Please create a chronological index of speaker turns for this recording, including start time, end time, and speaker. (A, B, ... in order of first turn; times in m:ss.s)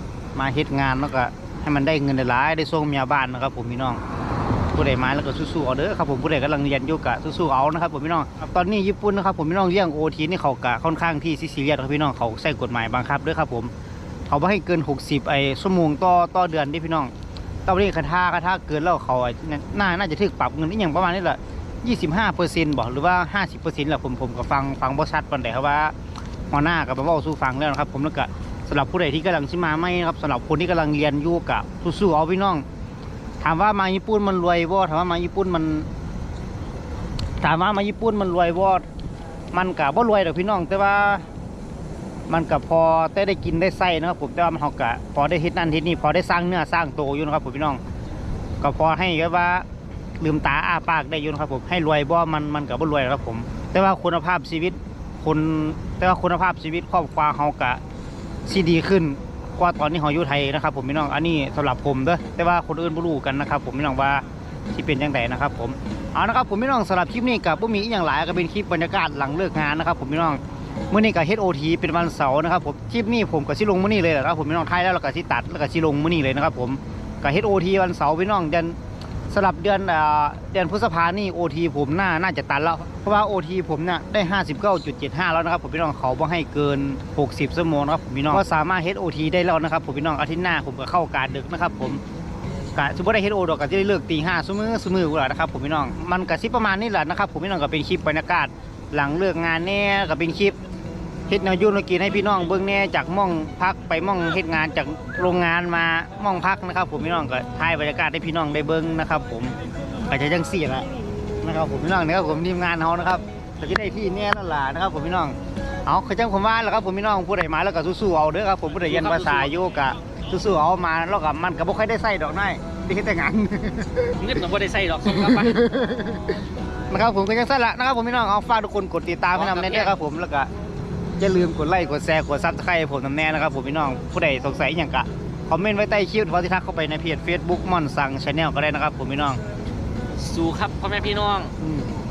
0:00.3-0:04.0 A
0:04.7-0:13.7 A
0:14.3-0:17.1 A
0:17.6-0:25.9 A
0:26.5-0:32.6 A
0:33.4-0:35.9 A
0:37.4-0:38.8 A
0:39.5-0:41.3 A
0:42.3-0:47.8 A
0:48.6-0:49.7 A
0:50.2-0:57.8 A
0:58.4-1:18.8 A
1:19.3-1:32.0 A
1:32.7-1:40.6 A
1:41.3-1:50.9 A
1:51.4-2:04.2 A
1:58.8-1:59.5 B
2:04.2-2:05.6 B
2:05.1-2:10.5 A
2:09.3-2:09.9 B
2:11.2-2:19.4 A
2:20.2-2:21.5 B
2:21.6-2:21.9 A